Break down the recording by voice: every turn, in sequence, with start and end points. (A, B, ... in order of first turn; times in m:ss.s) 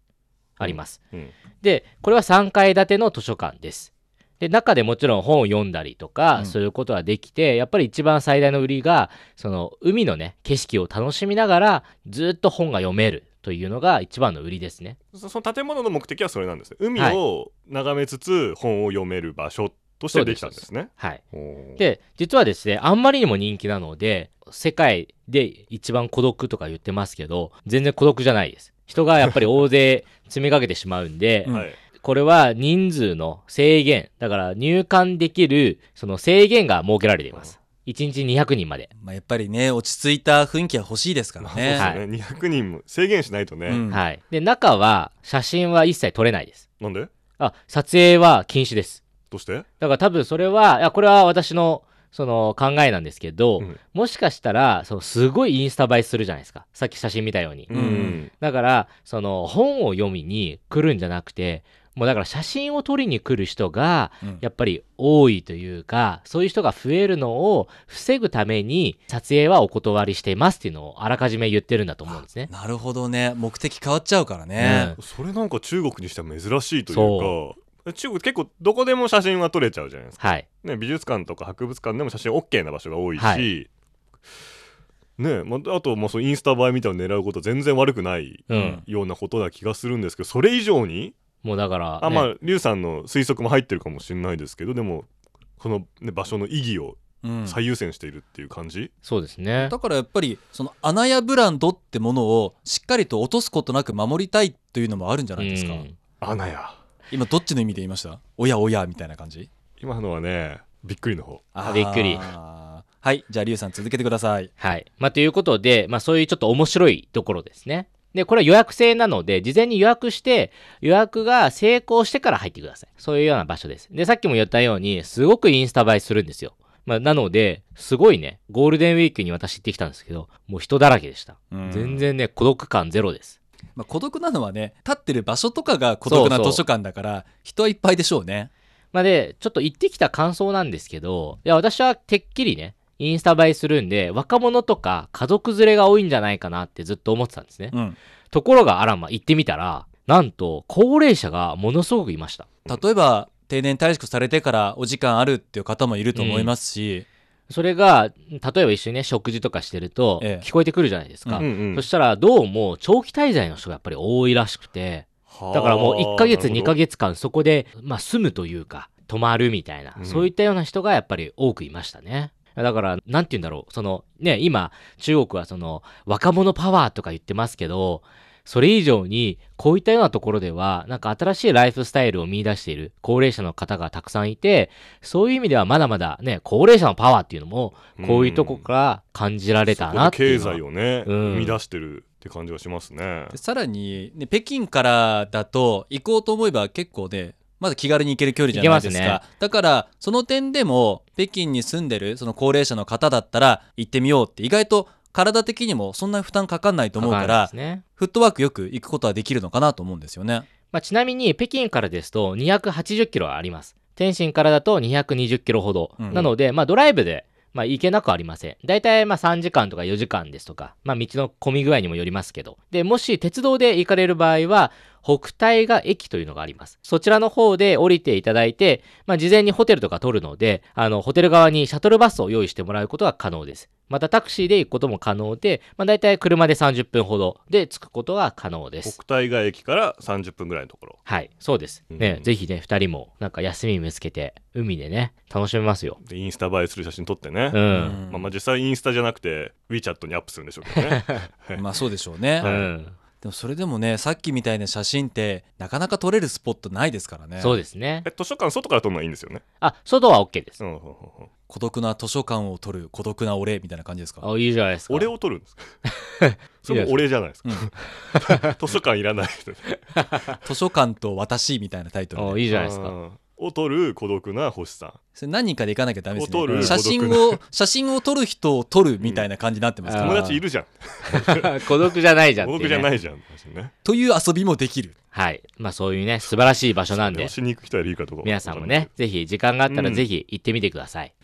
0:00.6-0:01.0 A
0:00.6-0:01.3 B
0:01.6-0:15.0 A
0:15.1-0:21.8 B
0:17.0-0:17.2 A
0:20.1-0:21.2 A
0:21.8-0:38.9 A
0:31.4-0:31.7 C
0:31.5-0:31.8 B
0:39.0-0:41.9 C
0:41.4-0:43.8 B
0:41.8-0:42.0 A
0:43.7-0:44.0 C
0:43.9-0:46.6 A
0:46.8-0:47.1 B
0:47.4-0:49.0 A
0:49.3-0:49.7 B
0:49.8-1:12.5 A
0:57.7-0:58.3 B
0:57.7-0:58.2 C
1:12.1-1:15.0 C
1:14.6-1:15.0 A
1:15.0-1:23.7 B
1:16.9-1:17.4 A
1:20.2-1:20.5 A
1:23.2-1:23.5 A
1:25.2-1:31.2 B
1:28.5-1:28.8 A
1:28.5-1:28.8 C
1:31.4-1:32.3 A
1:32.0-1:35.1 B
1:35.6-1:38.9 B
1:37.2-1:37.6 C
1:39.0-1:39.7 A
1:39.6-1:45.8 C
1:45.4-1:46.0 A
1:46.2-1:46.8 B
1:47.1-1:49.5 C
1:49.8-1:51.4 B
1:51.5-1:54.5 C
1:51.6-1:52.3 A
1:54.6-2:13.4 A
2:11.5-2:12.1 C
2:13.8-2:18.5 C
2:16.1-2:16.6 A
2:18.9-2:27.8 A
2:27.7-2:28.0 C
2:28.3-2:32.5 A
2:32.7-2:37.0 C
2:36.2-2:36.5 A
2:37.5-3:11.6 A
2:40.2-2:40.5 C
2:41.4-2:41.9 B
2:45.3-2:46.8 B
2:50.0-2:50.3 B
3:08.0-3:08.7 B
3:09.7-3:13.4 B
3:13.3-3:30.5 C
3:18.5-3:19.2 A
3:27.0-3:27.8 A
3:30.7-3:59.0 A
3:36.0-3:36.3 C
3:58.8-4:01.0 B
4:01.1-4:06.0 A
4:01.9-4:02.3 B
4:06.0-4:11.6 B
4:07.5-4:08.0 A
4:07.7-4:08.3 C
4:11.6-4:12.6 C
4:12.4-4:13.0 A
4:12.4-4:12.7 B
4:13.2-4:17.6 C
4:17.4-4:18.1 A
4:18.0-4:19.4 B
4:19.6-4:20.6 A
4:20.6-4:21.3 B
4:21.5-4:24.3 C
4:24.2-4:25.1 A
4:24.9-4:25.8 B
4:26.1-4:27.0 A
4:26.6-4:29.8 B
4:30.0-4:30.4 A
4:30.4-4:32.4 C
4:32.2-4:33.0 A
4:32.5-4:35.0 B
4:35.2-4:40.4 C
4:36.2-4:37.4 B
4:36.5-4:36.8 A
4:39.0-4:39.3 B
4:39.8-4:40.3 A
4:40.0-4:41.9 B
4:41.0-4:42.9 A
4:42.4-4:43.7 B
4:43.8-4:45.0 C
4:45.1-4:47.3 A
4:46.9-4:48.9 B
4:48.2-4:51.1 A
4:49.7-4:50.1 B